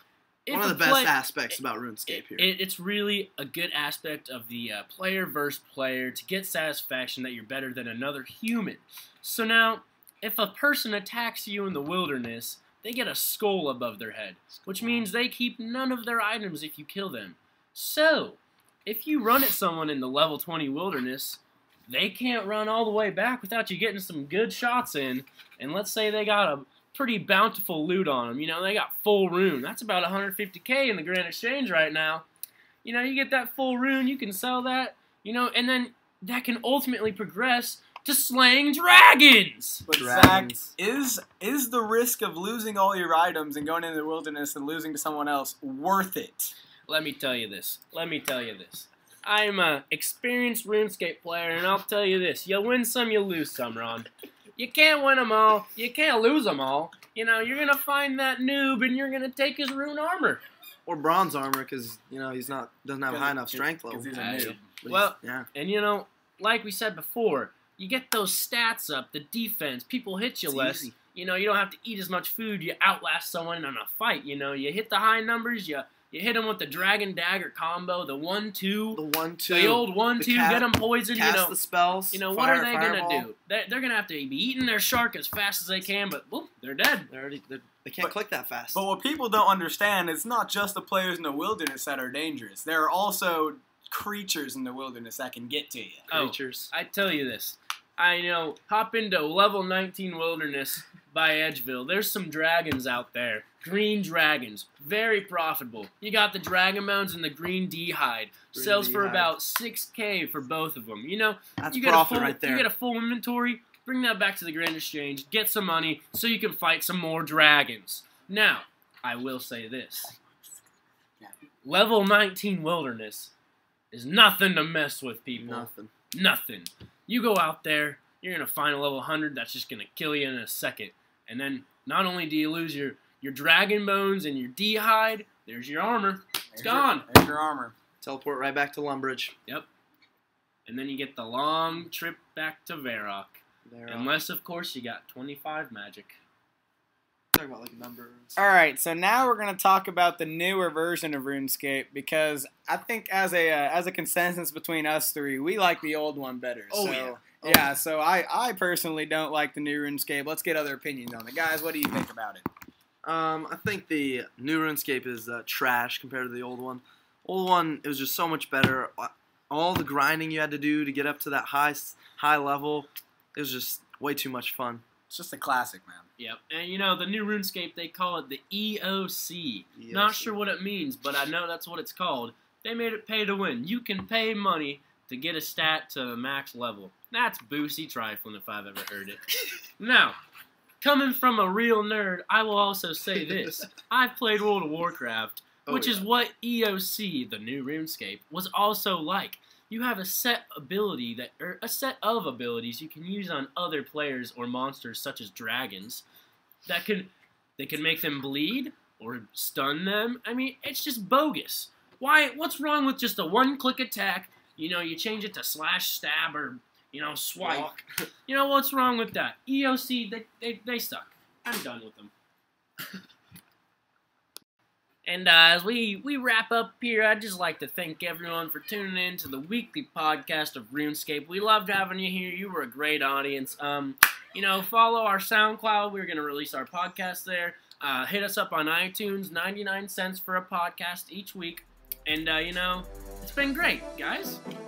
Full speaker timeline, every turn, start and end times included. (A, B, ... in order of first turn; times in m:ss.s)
0:00.4-0:01.6 A
0:00.5-0:02.5 B
0:02.1-0:32.2 A
0:32.8-0:39.9 A
0:39.8-0:46.5 C
0:40.0-0:40.7 B
0:46.9-1:00.4 A
1:00.8-1:05.5 B
1:03.0-1:04.7 C
1:04.1-1:21.5 A
1:10.5-1:10.9 B
1:18.9-1:23.3 B
1:22.1-1:27.1 A
1:27.1-1:28.8 B
1:28.7-1:36.1 C
1:36.1-1:36.7 B
1:36.1-2:00.1 A
1:48.5-1:49.3 B
1:51.6-1:52.7 B
2:01.6-2:03.3 A
2:03.9-2:17.0 A
2:05.4-2:05.9 B
2:16.5-2:17.7 C
2:18.0-2:19.3 B
2:20.6-2:26.2 A
2:23.6-2:24.1 B
2:27.3-2:28.3 B
2:28.4-2:42.4 C
2:36.7-2:37.7 B
2:43.0-2:54.8 B
2:55.1-2:56.1 C
2:56.2-3:09.2 A
2:59.8-3:00.3 B
3:09.8-3:10.2 A
3:10.8-3:26.0 A
3:15.7-3:16.0 B
3:26.6-3:37.7 A
3:37.4-3:37.8 B
3:38.3-3:42.1 A
3:45.0-4:04.4 A